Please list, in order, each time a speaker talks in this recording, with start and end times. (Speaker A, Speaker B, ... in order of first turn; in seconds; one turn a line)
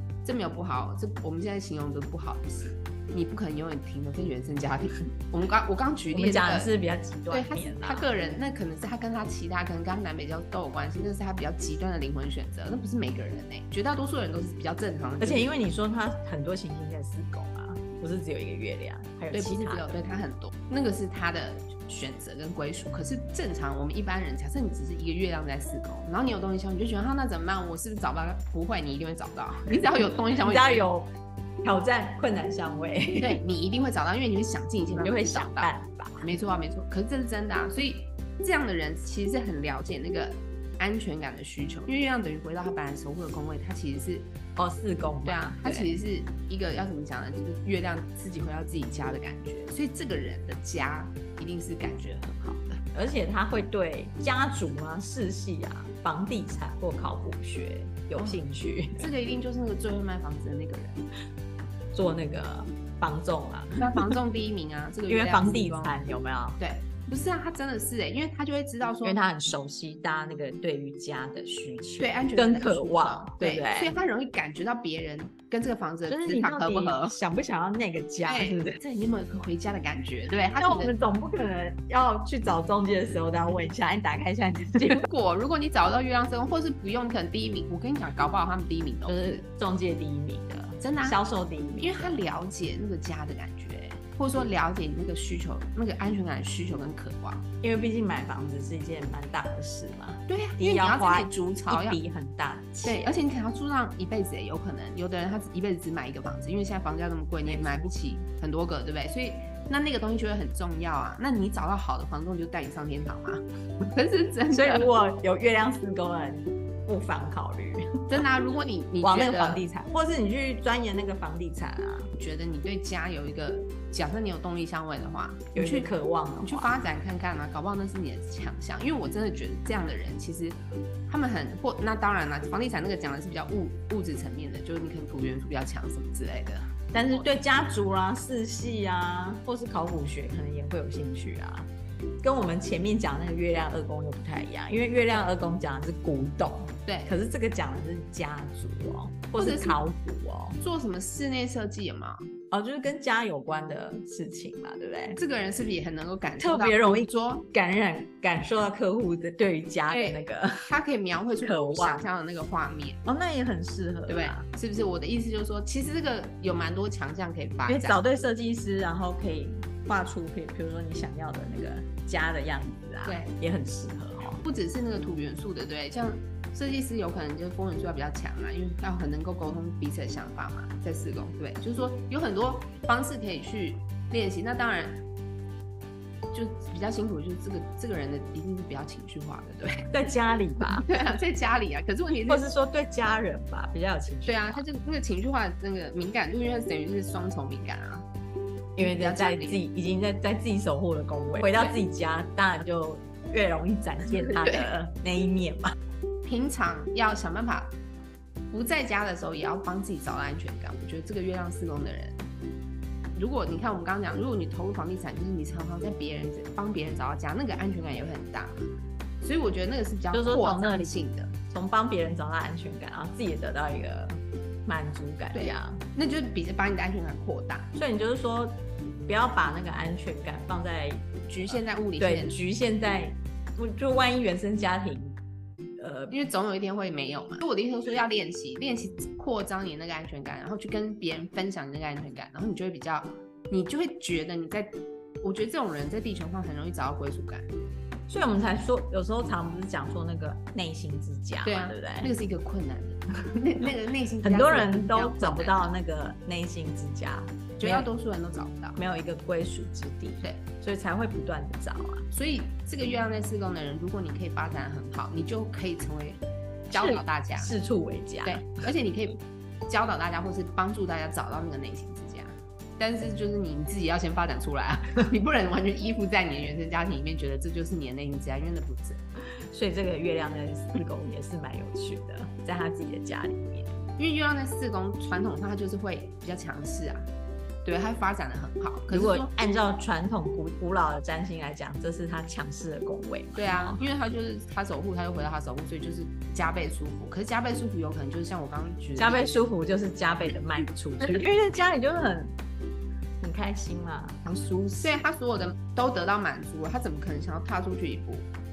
Speaker A: 0.2-6.7
Speaker B: 6.1-8.1
Speaker A: 7.3-15.5
Speaker B: 15.2-19.9
Speaker A: 19.3-30.9
Speaker B: 30.0-31.1
Speaker B: 31.6-33.4
Speaker A: 33.2-44.3
Speaker B: 34.9-36.3
Speaker B: 44.6-45.9
Speaker A: 45.2-52.8
Speaker B: 52.9-59.1
Speaker A: 58.1-58.4
Speaker A: 59.0-61.0
Speaker B: 61.9-64.1
Speaker A: 63.8-66.0
Speaker B: 65.1-66.6
Speaker A: 66.6-69.2
Speaker B: 69.0-73.9
Speaker A: 72.0-77.2
Speaker B: 76.1-78.8
Speaker A: 78.3-81.0
Speaker B: 80.6-85.1
Speaker A: 84.8-89.4
Speaker B: 89.1-92.2
Speaker A: 90.8-91.2
Speaker A: 91.8-97.5
Speaker B: 97.6-103.2
Speaker A: 100.3-102.0
Speaker A: 102.8-114.9
Speaker B: 107.4-108.0
Speaker B: 114.5-118.2
Speaker A: 118.1-119.6
Speaker B: 119.0-122.1
Speaker A: 122.2-137.3
Speaker B: 125.5-126.7
Speaker B: 136.9-141.7
Speaker B: 142.2-150.6
Speaker A: 146.9-147.2
Speaker A: 149.4-149.8
Speaker A: 150.6-152.2
Speaker B: 152.5-155.2
Speaker A: 155.2-157.5
Speaker B: 156.4-160.8
Speaker A: 159.9-163.0
Speaker B: 161.4-162.0
Speaker B: 163.1-164.4
Speaker A: 164.1-168.0
Speaker B: 167.7-174.4
Speaker A: 173.1-173.3
Speaker A: 174.4-185.0
Speaker A: 186.3-189.9
Speaker B: 189.9-191.1
Speaker A: 190.7-192.5
Speaker B: 192.3-194.6
Speaker A: 194.2-198.1
Speaker B: 198.8-205.8
Speaker A: 198.8-199.6
Speaker A: 201.3-201.8
Speaker A: 204.2-204.7
Speaker A: 206.2-207.7
Speaker A: 208.5-212.3
Speaker A: 213.1-218.7
Speaker A: 219.2-221.3
Speaker B: 220.1-225.8
Speaker A: 225.3-227.7
Speaker B: 227.7-235.2
Speaker A: 231.3-232.4
Speaker B: 235.8-236.3
Speaker A: 236.1-247.5
Speaker B: 248.1-252.1
Speaker A: 251.4-255.7
Speaker B: 254.2-257.9
Speaker A: 257.6-258.8
Speaker B: 258.8-262.1
Speaker A: 262.1-267.5
Speaker B: 266.7-268.6
Speaker A: 268.2-279.0
Speaker B: 279.5-283.7
Speaker A: 284.0-287.1
Speaker A: 287.6-289.3
Speaker B: 288.9-293.8
Speaker A: 293.4-299.4
Speaker B: 299.0-302.3
Speaker B: 303.2-304.3
Speaker A: 304.2-308.3